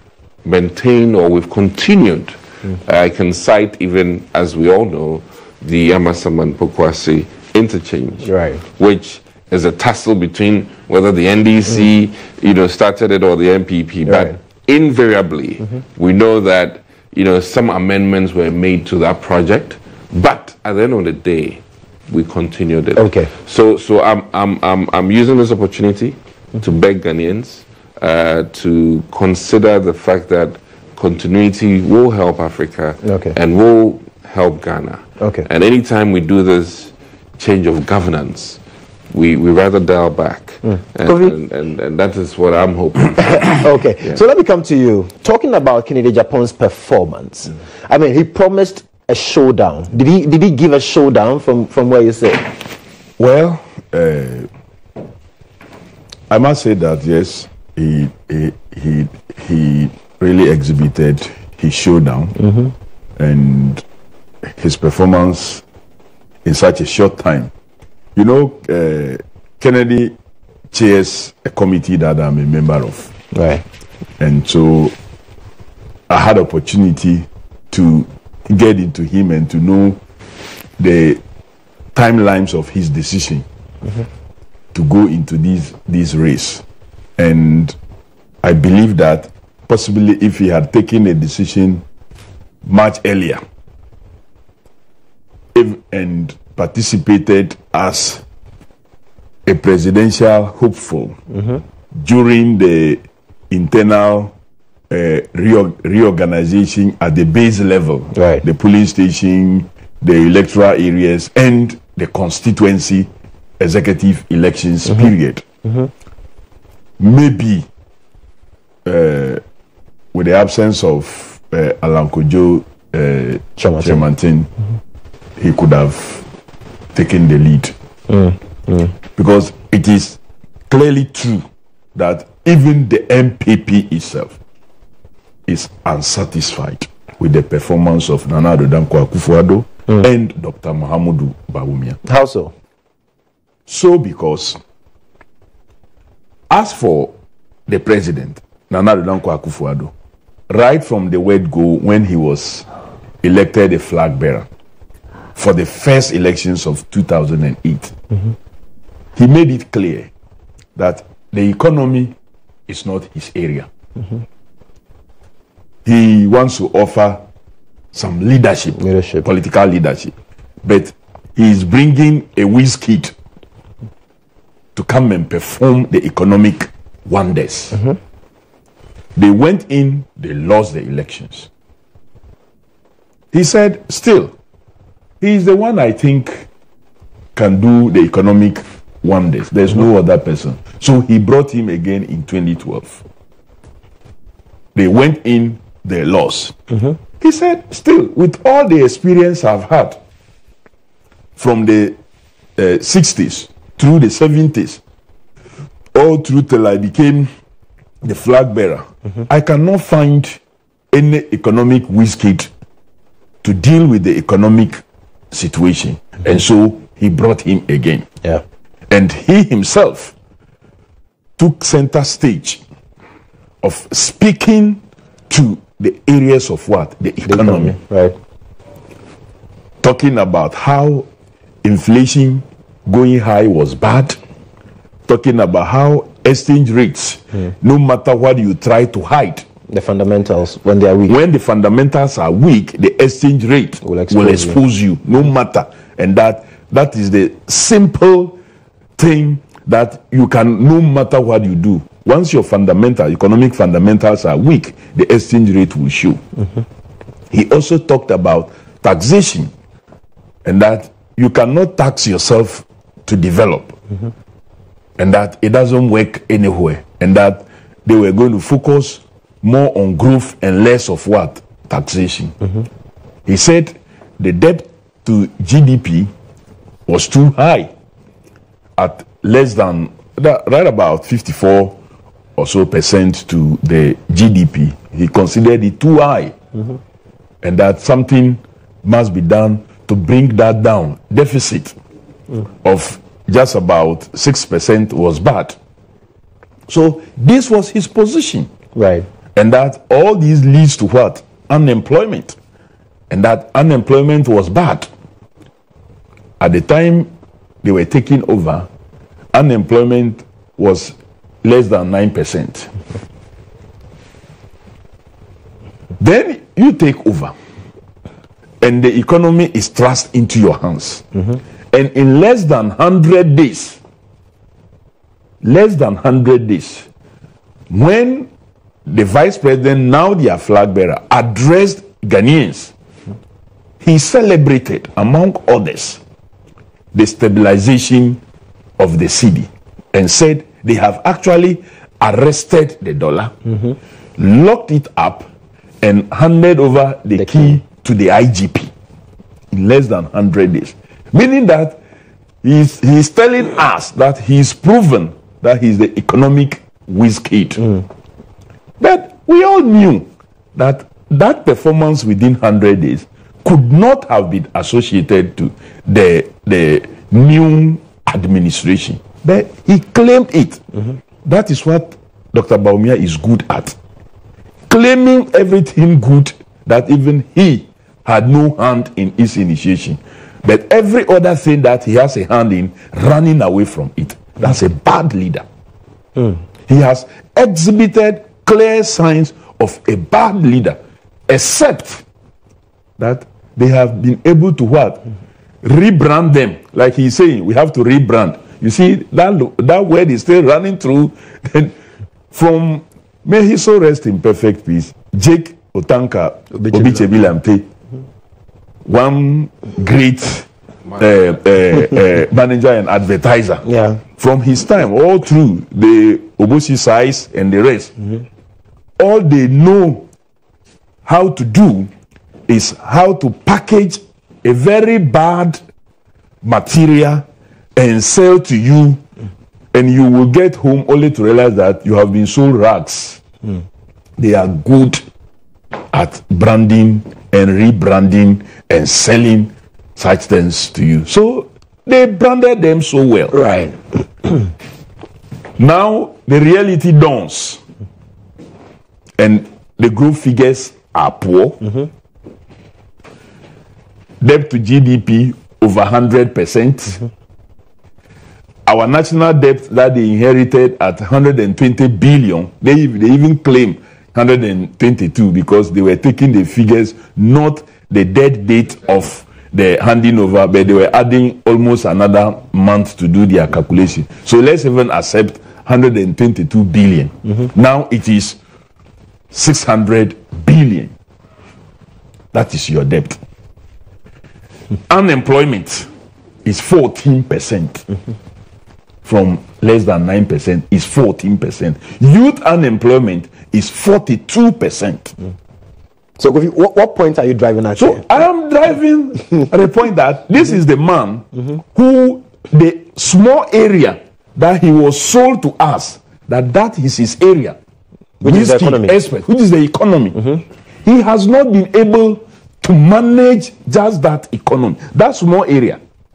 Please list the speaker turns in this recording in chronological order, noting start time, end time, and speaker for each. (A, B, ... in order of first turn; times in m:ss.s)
0:00.4-0:44.2 A
0:08.2-0:08.6 B
0:14.1-0:14.4 B
0:23.0-0:23.3 B
0:33.0-0:33.4 B
0:35.2-0:35.5 B
0:40.7-0:41.4 B
0:43.2-0:52.5 B
0:53.2-0:54.5 C
0:56.3-1:02.4 C
1:02.4-1:02.7 B
1:03.2-1:03.8 C
1:04.6-1:05.6 C
1:06.4-1:07.5 C
1:08.2-1:10.2 C
1:10.7-1:13.1 C
1:13.3-1:13.6 B
1:14.2-1:15.0 C
1:16.1-1:20.0 C
1:20.8-1:21.2 C
1:22.0-1:23.4 C
1:24.7-1:26.6 C
1:27.2-1:27.8 C
1:28.4-1:31.8 C
1:32.6-1:33.4 C
1:35.6-1:38.2 C
1:39.5-1:41.2 C
1:41.3-1:41.6 B
1:42.0-1:44.3 C
1:44.9-1:53.1 C
1:48.1-1:48.4 B
1:53.6-1:55.4 C
1:57.0-1:57.7 C
1:58.8-1:59.4 C
2:00.1-2:04.5 C
2:03.6-2:04.0 B
2:05.4-2:06.2 C
2:06.9-2:07.7 C
2:08.1-2:08.9 B
2:09.2-2:14.4 C
2:15.5-2:22.0 C
2:22.0-2:22.5 B
2:23.7-2:24.6 C
2:26.5-2:27.1 C
2:27.7-2:29.9 C
2:30.5-2:32.7 C
2:33.2-2:34.5 C
2:35.4-2:37.9 C
2:39.2-2:40.1 C
2:40.8-2:42.2 C
2:42.7-2:43.7 C
2:45.8-2:47.2 C
2:47.9-2:53.1 C
2:48.8-2:49.3 B
2:54.8-2:57.8 C
2:59.2-3:01.5 C
3:03.3-3:04.3 C
3:05.2-3:06.5 C
3:07.4-3:13.0 C
3:14.8-3:16.6 C
3:17.2-3:20.0 C
3:21.4-3:22.0 C
3:22.6-3:24.8 C
3:26.0-3:27.3 C
3:28.0-3:30.4 C
3:30.9-3:32.5 C
3:33.4-3:34.8 C
3:35.3-3:38.1 C
3:38.9-3:40.2 C
3:41.4-3:42.6 C
3:43.6-3:47.8 C
3:47.3-3:48.2 B
3:49.8-3:51.1 C
3:51.6-3:54.2 C
3:55.1-3:59.4 C
3:59.7-4:01.2 B
4:01.1-4:08.4 C
4:03.8-4:04.6 B
4:09.0-4:16.2 C
4:17.3-4:19.5 C
4:20.4-4:23.8 C
4:25.0-4:32.4 C
4:33.3-4:36.1 C
4:36.9-4:37.7 C
4:38.8-4:41.8 C
4:42.4-4:46.4 C
4:47.4-4:51.8 C
4:52.6-4:55.6 C
4:56.7-4:58.5 C
4:58.8-4:59.1 B
4:59.4-5:02.4 C
5:03.1-5:04.9 C
5:06.4-5:07.1 C
5:07.6-5:08.7 C
5:09.3-5:12.7 C
5:16.0-5:17.3 C
5:18.6-5:21.1 C
5:21.7-5:23.8 C
5:25.4-5:26.9 C
5:27.7-5:28.3 C
5:28.9-5:32.7 C
5:33.8-5:36.0 C
5:36.9-5:38.2 C
5:38.8-5:43.3 C
5:44.2-5:45.3 C
5:45.8-5:48.7 C
5:47.2-5:47.6 B
5:49.5-5:51.8 C
5:52.4-5:57.8 C
5:58.8-6:10.6 C
6:11.2-6:13.8 C
6:14.7-6:25.4 C
6:26.7-6:30.8 C
6:31.3-6:32.0 C
6:33.0-6:35.0 C
6:35.6-6:41.8 C
6:42.3-6:47.7 C
6:46.6-6:47.0 B
6:48.9-6:58.0 C
6:53.6-6:54.0 B
6:59.0-7:00.1 C
7:01.0-7:01.9 C
7:02.5-7:05.6 C
7:06.4-7:09.0 C
7:09.7-7:13.2 C
7:14.2-7:15.0 C
7:15.9-7:23.4 C
7:23.3-7:24.3 B
7:25.6-7:27.6 C
7:29.2-7:31.8 C
7:34.2-7:37.0 C
7:38.7-7:58.4 C
7:59.3-8:00.9 C
8:02.3-8:03.2 C
8:04.9-8:05.9 C
8:06.4-8:07.9 C
8:09.0-8:15.2 C
8:16.2-8:18.3 B
8:17.8-8:27.6 C
8:28.2-8:29.0 B
8:28.2-8:30.3 C
8:30.8-8:35.8 C